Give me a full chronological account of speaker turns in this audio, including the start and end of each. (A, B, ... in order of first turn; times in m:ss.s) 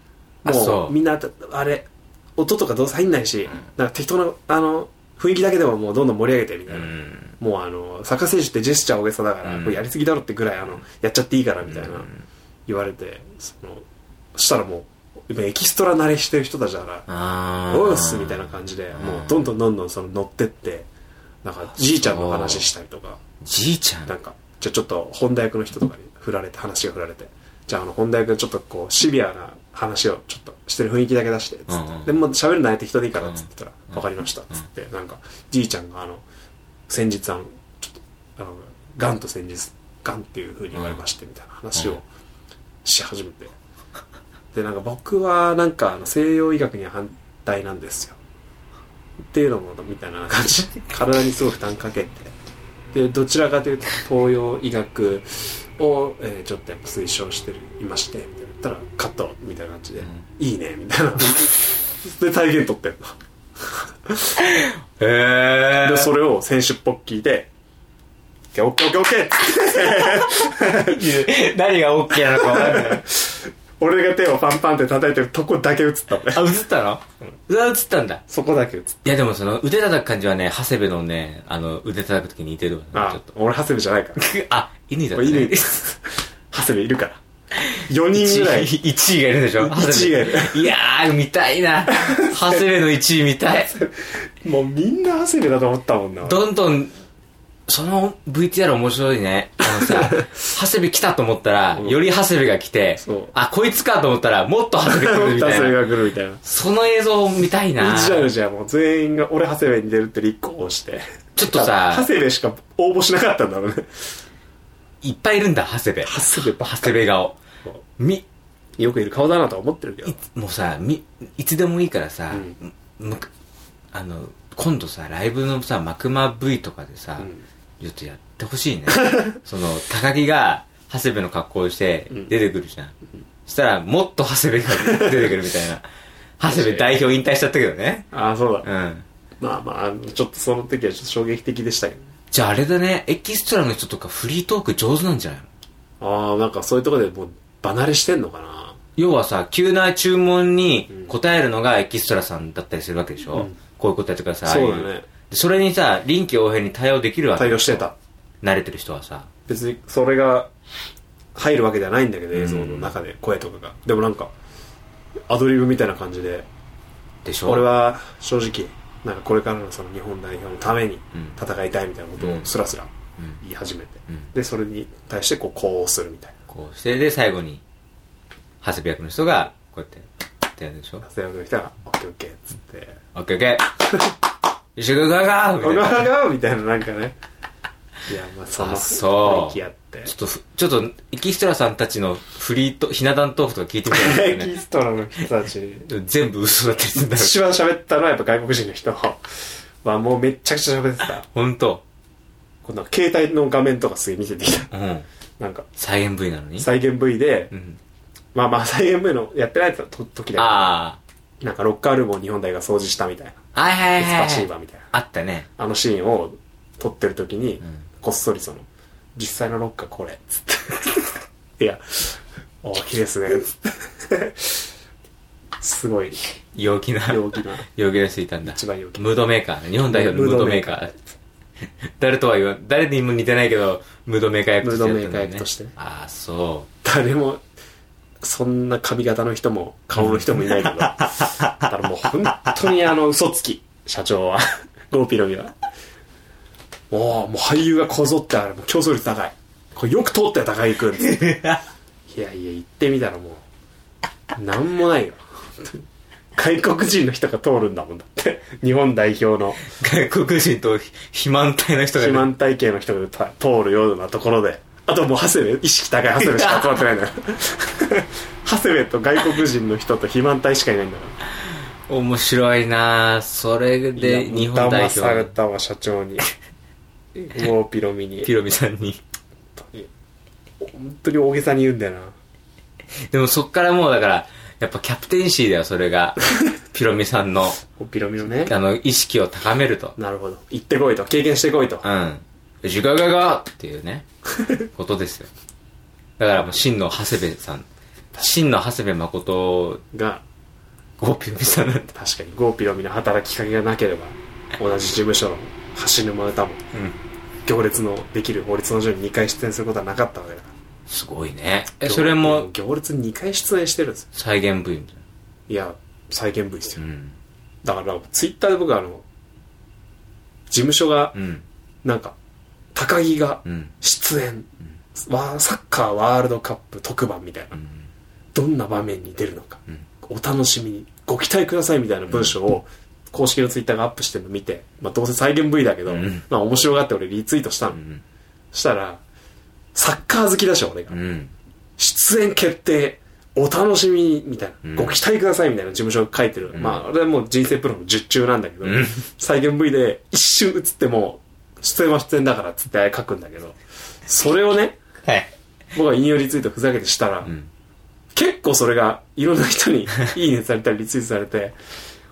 0:00.4-0:12.1 A
0:00.4-0:00.9 B
0:06.7-0:07.3 B
0:09.4-0:09.8 B
0:11.7-0:12.1 B
0:12.7-0:13.8 A
0:14.3-0:17.1 A
0:17.1-0:19.4 B
0:17.7-0:20.9 A
0:21.4-0:23.2 A
0:21.8-0:22.7 B
0:23.4-0:24.1 B
0:24.0-0:36.2 A
0:31.7-0:32.1 B
0:36.9-0:42.0 A
0:40.7-0:41.0 B
0:42.8-0:43.5 A
0:44.5-0:48.2 A
0:49.3-0:52.3 A
0:52.9-1:03.2 A
1:03.7-1:04.4 A
1:04.4-1:06.1 B
1:05.8-1:07.5 A
1:08.5-1:11.2 A
1:10.0-1:13.0 B
1:12.3-1:16.5 A
1:16.3-1:18.2 B
1:18.3-1:19.1 A
1:19.0-1:23.2 B
1:22.9-1:24.3 A
1:24.2-1:25.8 B
1:25.1-1:27.2 A
1:27.6-1:33.7 B
1:27.8-1:28.7 A
1:29.6-1:30.6 A
1:32.0-1:32.6 A
1:33.7-1:36.4 A
1:36.2-1:36.9 B
1:37.7-1:45.8 B
1:39.8-1:40.3 A
1:43.0-1:43.3 A
1:44.9-1:46.4 A
1:46.4-1:48.3 B
1:47.8-1:54.0 A
1:51.4-1:52.1 B
1:55.0-1:57.4 B
1:56.0-1:57.0 A
1:58.0-1:58.2 B
1:58.8-2:00.2 A
2:00.0-2:03.3 B
2:03.9-2:12.9 B
2:09.0-2:09.4 A
2:13.4-2:15.8 B
2:16.4-2:18.1 B
2:16.5-2:16.9 A
2:18.1-2:18.7 A
2:18.6-2:19.0 B
2:19.4-2:22.0 A
2:22.3-2:25.5 B
2:26.0-2:28.8 A
2:29.0-2:37.8 B
2:34.4-2:35.1 A
2:37.4-2:37.9 A
2:38.4-2:39.3 B
2:39.5-2:40.5 A
2:41.3-2:44.3 A
2:42.3-2:43.0 B
2:45.3-2:46.5 A
2:47.2-2:47.7 B
2:47.4-2:56.4 A
2:52.2-2:52.5 B
2:56.5-2:57.6 B
2:58.6-3:01.0 B
3:01.0-3:03.0 A
3:03.1-3:03.7 B
3:04.8-3:06.1 B
3:05.6-3:07.2 A
3:08.1-3:10.1 A
3:08.6-3:14.5 B
3:13.9-3:15.9 A
3:15.9-3:17.4 B
3:17.1-3:19.2 A
3:19.8-3:21.2 A
3:21.3-3:21.8 B
3:22.6-3:24.7 A
3:24.7-3:25.0 B
3:25.4-3:25.7 A
3:25.8-3:26.7 B
3:26.6-3:27.5 A
3:27.5-3:27.8 B
3:28.3-3:30.7 A
3:30.4-3:31.0 B
3:31.4-3:33.4 A
3:33.5-3:35.5 B
3:34.0-3:34.9 A
3:35.6-3:44.6 A
3:45.6-3:46.2 A
3:46.5-3:50.9 B
3:47.1-3:47.6 A
3:48.4-3:49.1 A
3:49.9-3:51.0 A
3:52.0-3:56.7 B
3:54.6-3:55.7 A
3:56.8-3:57.4 A
3:58.2-4:05.5 A
4:00.0-4:01.5 B
4:06.9-4:11.4 A
4:11.0-4:11.6 B
4:12.1-4:13.4 A
4:14.4-4:15.8 A
4:16.4-4:19.6 A
4:19.6-4:22.3 B
4:21.9-4:31.1 A
4:26.2-4:26.7 B
4:31.9-4:35.3 B
4:34.0-4:36.2 A
4:37.2-4:38.3 A
4:38.2-4:39.0 B
4:39.6-4:39.9 A
4:40.6-4:42.1 A
4:43.1-4:47.6 B
4:47.8-4:48.5 A
4:48.4-4:50.0 B
4:50.0-4:51.8 A
4:51.8-4:54.0 B
4:54.7-4:55.3 B
4:56.2-4:57.7 B
4:58.2-4:59.8 B
4:59.9-5:00.2 A
5:01.0-5:01.9 B
5:01.4-5:06.6 A
5:06.7-5:07.0 B
5:07.4-5:10.5 A
5:10.9-5:12.5 B
5:11.8-5:14.1 A
5:14.1-5:15.0 B
5:15.5-5:16.8 A
5:16.8-5:17.1 B
5:17.6-5:19.0 A
5:20.5-5:21.2 A
5:21.1-5:21.4 B
5:21.8-5:22.1 A
5:22.7-5:27.6 A
5:23.4-5:23.7 B
5:27.5-5:27.8 B
5:28.3-5:37.8 A
5:32.1-5:32.3 B
5:35.9-5:36.2 B
5:37.7-5:38.0 B
5:38.5-5:39.0 A
5:39.7-5:41.0 A
5:40.9-5:41.3 B
5:41.8-5:54.8 A
5:44.6-5:45.0 B
5:46.5-5:46.8 B
5:48.6-5:49.0 B
5:55.0-5:55.3 B
5:55.7-5:57.3 A
5:58.1-6:01.6 A